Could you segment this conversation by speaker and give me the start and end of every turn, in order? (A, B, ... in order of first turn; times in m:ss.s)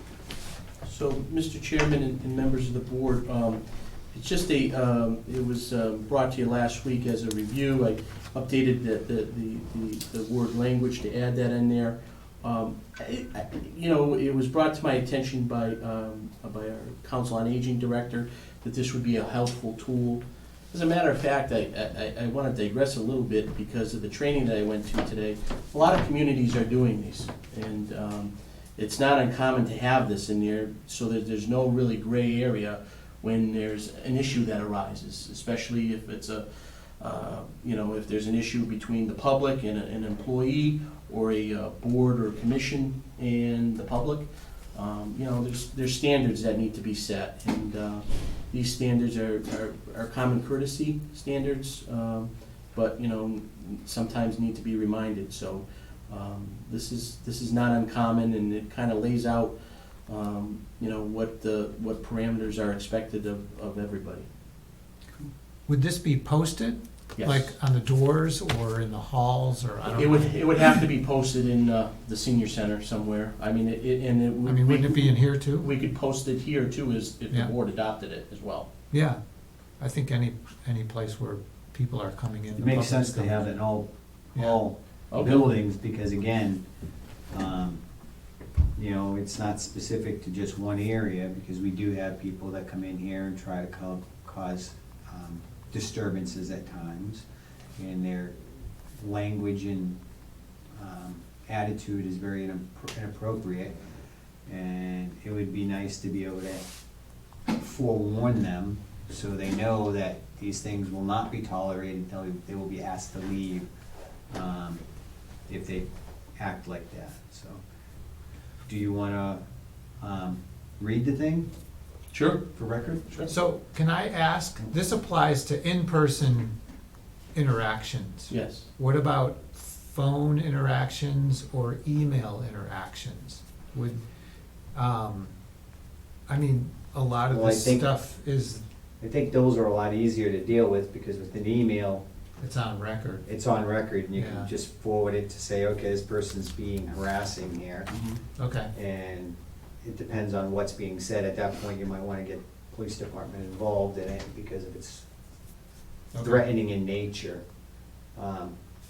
0:00.8-0:59.5 A
1:00.1-1:04.3 A
1:05.7-1:10.6 B
1:07.2-1:07.5 A
1:09.8-1:18.7 A
1:14.4-1:15.7 B
1:18.9-1:19.2 B
1:19.8-1:23.5 B
1:22.6-1:26.6 C
1:25.1-1:25.5 A
1:27.3-1:27.8 C
1:28.8-1:37.2 C
1:37.8-1:38.3 C
1:39.0-1:40.0 C
1:40.7-1:43.7 C
1:44.4-1:46.6 C
1:47.5-1:53.7 C
1:54.3-1:54.8 C
1:55.5-1:55.8 C
1:56.4-1:57.6 C
1:58.7-1:59.4 C
2:00.0-2:01.5 C
2:02.1-2:02.4 A
2:02.5-2:03.0 C
2:03.3-2:06.5 B
2:07.3-2:14.0 B
2:08.3-2:08.7 A
2:14.7-2:15.3 B
2:16.3-2:18.6 B
2:17.3-2:17.8 C
2:19.0-2:22.0 C
2:22.4-2:23.2 B
2:23.2-2:27.9 C
2:24.1-2:24.5 B
2:27.9-2:28.2 A
2:28.4-2:28.7 B
2:28.7-2:35.0 C
2:36.1-2:36.4 B
2:36.2-2:37.4 C
2:38.2-2:38.5 C